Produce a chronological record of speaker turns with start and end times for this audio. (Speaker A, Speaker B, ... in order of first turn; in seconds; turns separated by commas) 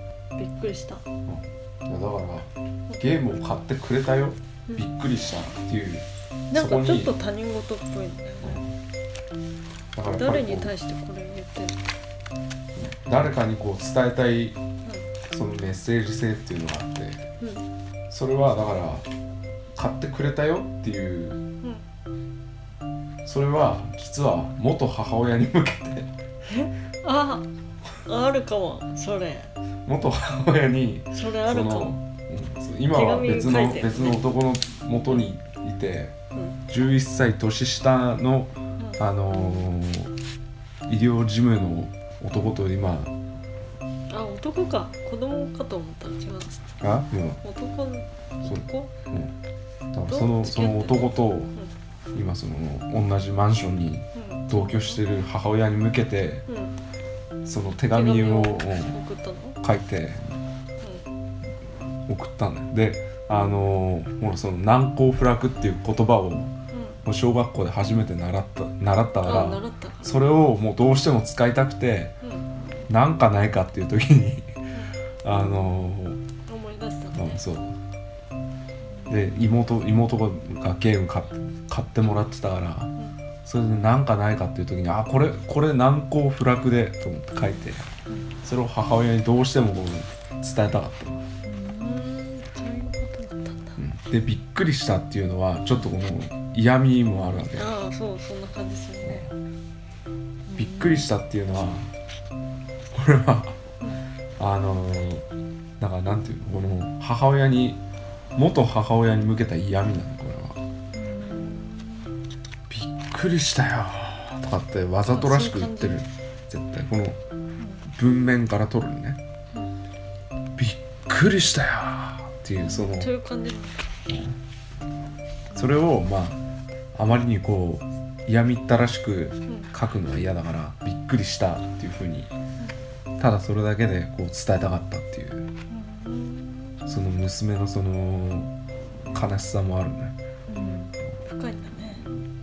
Speaker A: 0.4-1.1, Speaker B: 1.3-7.2, Speaker A: 6.5-8.6, Speaker B: 8.4-8.7, Speaker B: 9.9-10.7, Speaker A: 10.0-11.8, Speaker B: 12.8-14.6, Speaker B: 15.3-17.2, Speaker A: 17.4-17.6, Speaker B: 18.1-19.1, Speaker B: 19.8-21.4, Speaker B: 23.2-26.1, Speaker A: 26.5-27.5, Speaker A: 28.1-29.6, Speaker B: 29.9-36.1, Speaker A: 31.1-31.9, Speaker A: 32.9-34.3, Speaker B: 36.7-40.1, Speaker B: 40.9-43.1, Speaker A: 44.1-46.6, Speaker B: 46.8-47.4, Speaker A: 47.4-48.9, Speaker B: 48.5-49.3, Speaker B: 49.9-51.5, Speaker A: 50.1-51.7, Speaker B: 52.1-56.5, Speaker A: 54.1-55.0, Speaker A: 56.5-56.8, Speaker B: 57.5-59.0, Speaker A: 57.9-59.6, Speaker B: 59.6-60.4, Speaker A: 60.8-61.1, Speaker B: 62.1-66.5, Speaker A: 66.7-67.0, Speaker B: 67.0-72.1, Speaker A: 69.2-70.5, Speaker A: 72.2-72.5, Speaker B: 72.9-74.6, Speaker A: 74.7-75.0, Speaker B: 75.2-76.2, Speaker A: 76.5-77.4, Speaker B: 77.1-77.8, Speaker A: 79.0-79.4, Speaker B: 79.1-82.9, Speaker B: 83.5-87.9, Speaker B: 88.4-91.2, Speaker A: 91.4-93.8, Speaker B: 93.8-97.7, Speaker A: 97.5-99.3, Speaker A: 100.5-101.1, Speaker B: 100.5-101.9, Speaker B: 102.9-103.6, Speaker B: 104.4-105.2, Speaker B: 105.8-107.8, Speaker B: 108.4-110.6, Speaker A: 110.9-112.1, Speaker B: 112.7-117.2, Speaker A: 115.0-116.0, Speaker A: 117.6-117.8, Speaker B: 117.9-119.2, Speaker B: 120.6-123.1, Speaker A: 122.6-123.8, Speaker B: 124.1-124.4, Speaker A: 125.5-125.8, Speaker B: 125.6-126.4, Speaker B: 127.0-132.3, Speaker A: 129.5-129.7, Speaker B: 133.2-135.5, Speaker A: 135.7-136.9, Speaker B: 136.9-138.5, Speaker B: 139.1-140.2, Speaker A: 140.5-142.1